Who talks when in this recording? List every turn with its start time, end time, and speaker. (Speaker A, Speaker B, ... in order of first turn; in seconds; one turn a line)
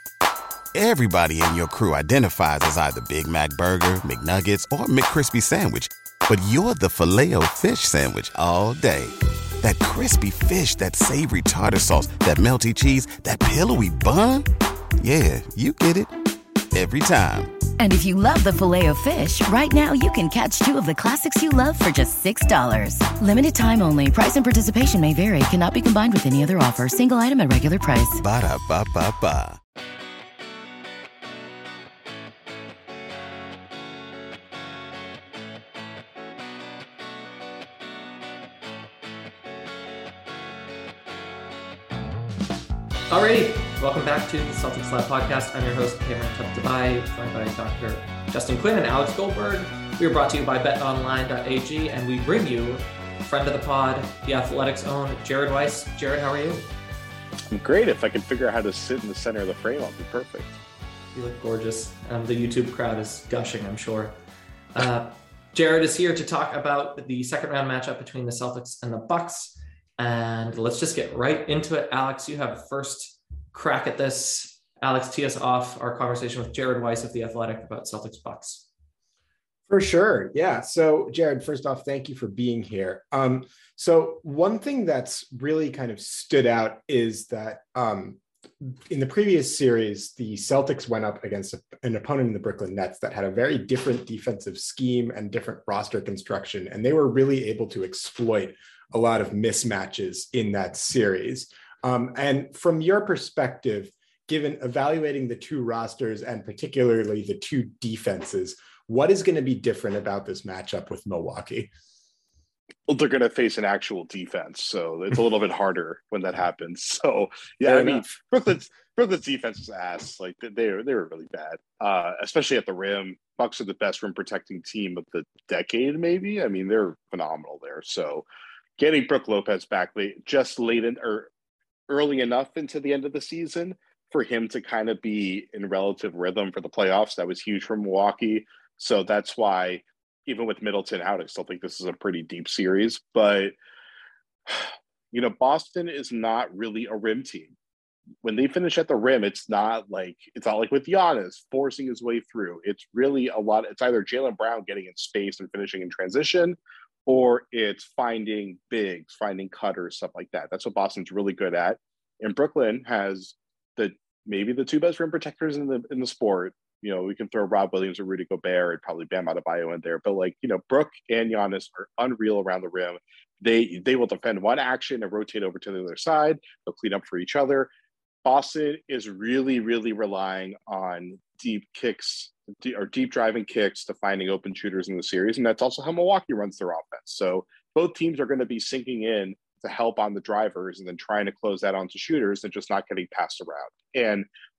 Speaker A: 0.7-16.2
Speaker A: 16.7-17.6
Speaker B: 17.8-28.2
Speaker A: 28.2-29.6
Speaker C: 43.1-56.7
Speaker D: 57.5-60.5
Speaker C: 61.1-64.2
Speaker C: 64.7-78.6
Speaker E: 79.7-111.7
Speaker D: 112.9-128.2
Speaker E: 117.6-118.0
Speaker D: 128.8-131.3
Speaker D: 131.9-143.6
Speaker D: 144.5-147.5
Speaker D: 148.2-177.7
Speaker D: 178.2-194.3